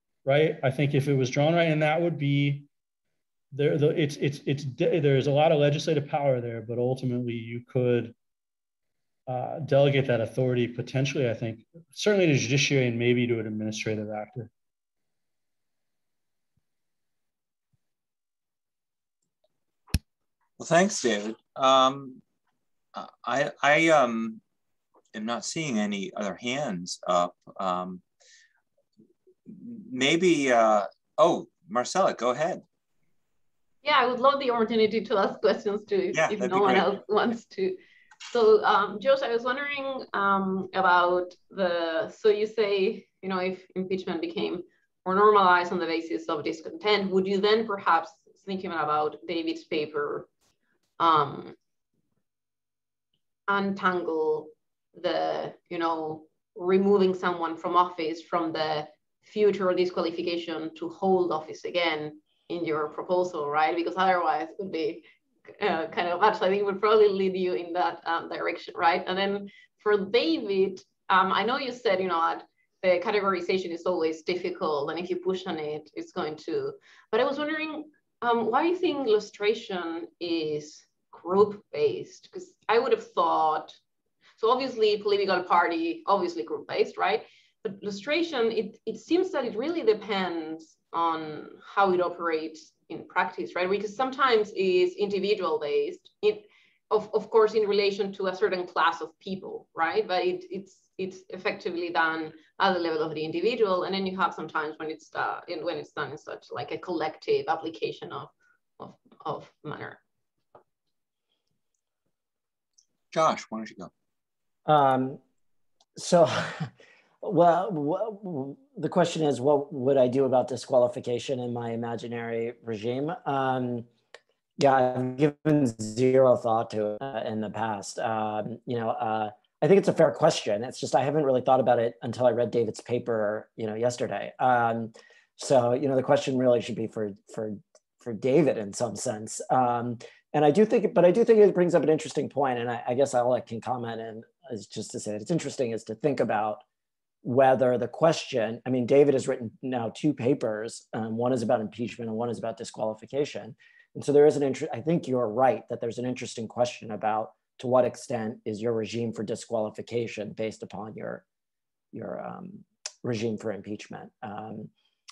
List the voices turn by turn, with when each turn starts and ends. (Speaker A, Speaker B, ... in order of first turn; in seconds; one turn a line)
Speaker A: 0.2-2.7
Speaker A: 3.5-8.1
Speaker A: 9.3-14.5
Speaker B: 20.6-22.2
Speaker B: 22.9-24.4
Speaker B: 25.1-28.0
Speaker B: 29.5-32.6
Speaker C: 33.8-37.8
Speaker B: 36.1-36.9
Speaker C: 38.3-50.3
Speaker C: 51.0-51.5
Speaker C: 53.5-83.8
Speaker C: 84.4-110.0
Speaker B: 113.1-113.9
Speaker D: 114.7-115.2
Speaker D: 116.0-116.7
Speaker D: 117.2-123.9
Speaker D: 124.6-146.6
Speaker D: 147.2-161.2
Speaker D: 161.9-164.7